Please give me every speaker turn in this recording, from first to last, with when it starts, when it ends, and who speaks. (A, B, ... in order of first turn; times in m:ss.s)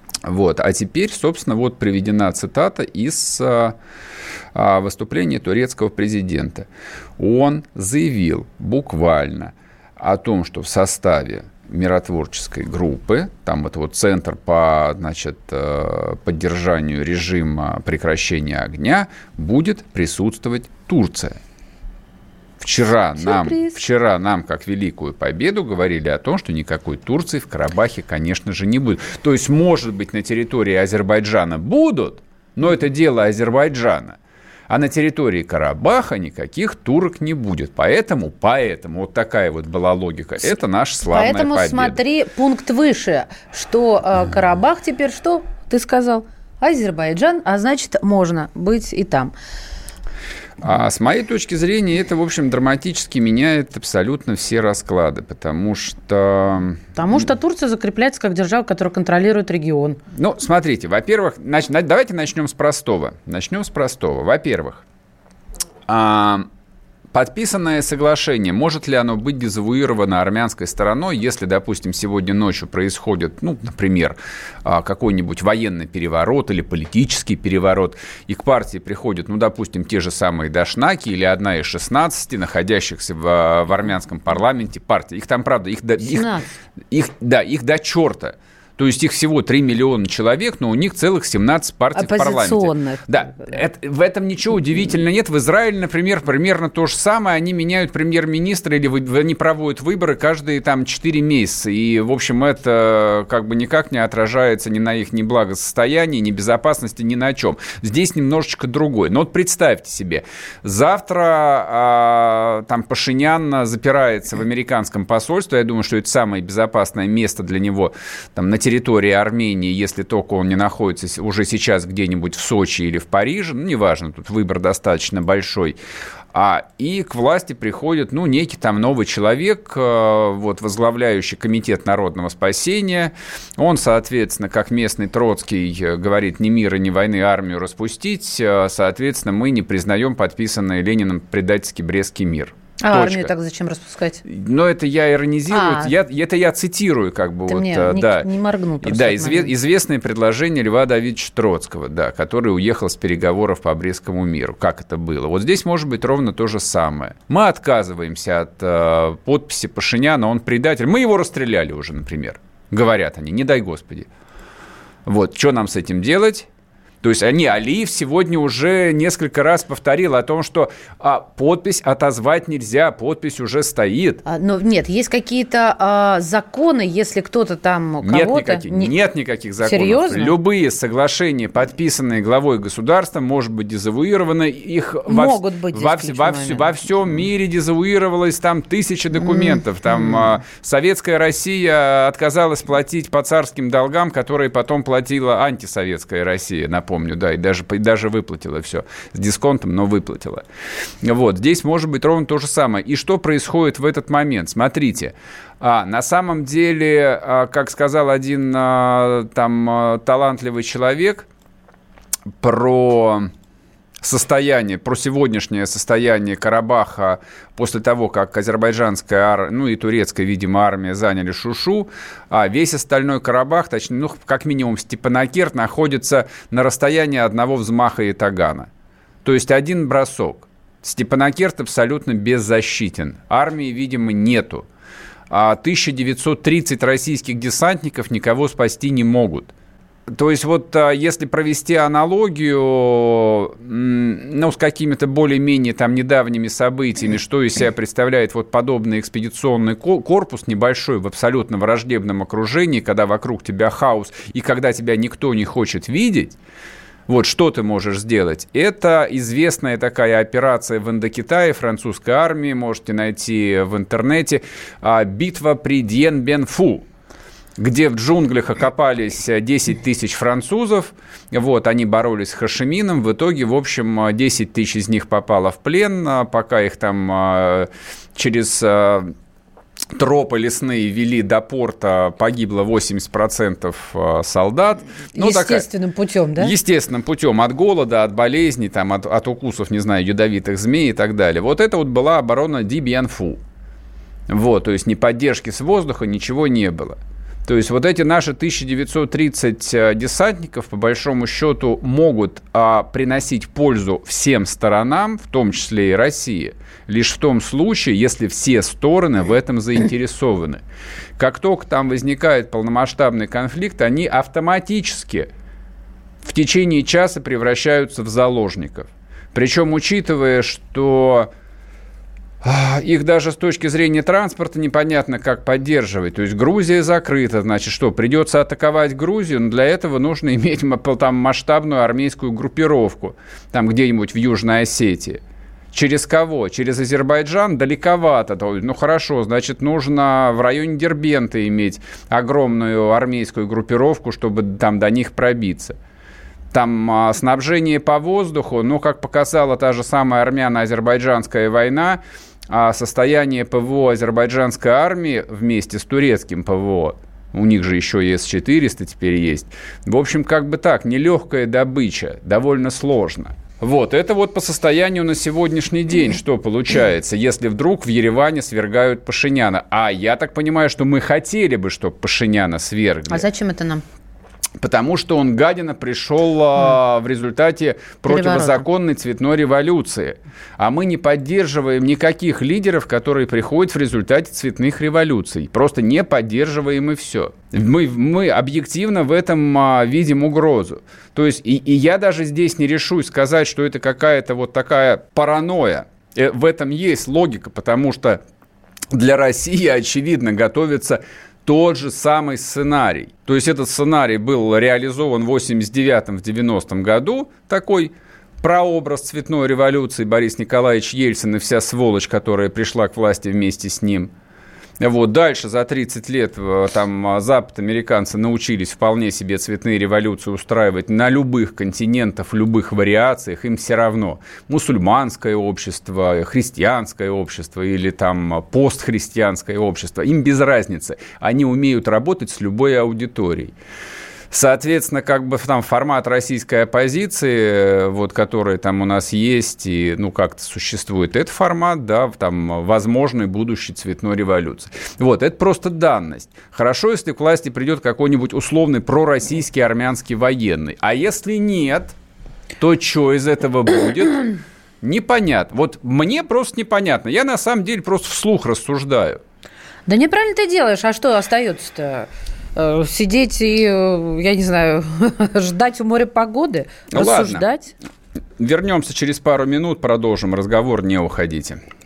0:00.2-0:03.8 A
0:04.5-0:06.7 A
0:07.2-0:21.4 A
0:22.6-0:34.2 A
0:23.2-0:23.8 B
0:34.7-0:42.0 A
0:41.1-0:49.3 B
0:50.6-0:57.3 A
0:57.0-1:00.0 B
1:00.1-1:04.8 A
1:05.9-1:06.5 A
1:07.1-1:26.3 A
1:26.0-1:26.5 B
1:26.9-2:05.8 A
1:32.0-1:33.6 B
2:06.3-2:23.3 A
2:22.8-2:24.2 B
2:24.2-2:28.3 A
2:25.5-2:25.9 B
2:27.5-2:29.5 B
2:28.8-2:44.1 A
2:45.0-2:46.5 A
2:47.0-2:54.2 A
2:54.2-2:58.9 B
2:58.0-3:20.4 A
2:59.6-3:00.3 B
3:05.1-3:06.7 B
3:09.3-3:10.2 B
3:21.0-3:31.3 A
3:32.4-3:33.3 A
3:34.0-3:48.7 A
3:49.2-3:54.6 A
3:55.3-3:59.5 A
4:00.1-4:16.4 A
4:17.1-4:26.8 A
4:27.6-4:39.1 A
4:39.9-4:45.6 A
4:45.1-4:46.5 B
4:46.4-4:53.4 A
4:54.3-5:10.6 A
5:11.2-5:15.3 A
5:16.2-5:21.3 A
5:22.4-5:35.2 A
5:35.7-5:45.8 A
5:46.5-6:13.2 A
6:13.1-6:13.8 B
6:14.6-6:38.2 A
6:18.1-6:18.6 B
6:38.9-6:54.1 A
6:54.8-7:13.5 A
7:14.3-7:31.9 A
7:32.6-7:39.2 A
7:39.9-7:47.7 B
7:46.9-7:47.4 A
7:48.4-7:51.6 A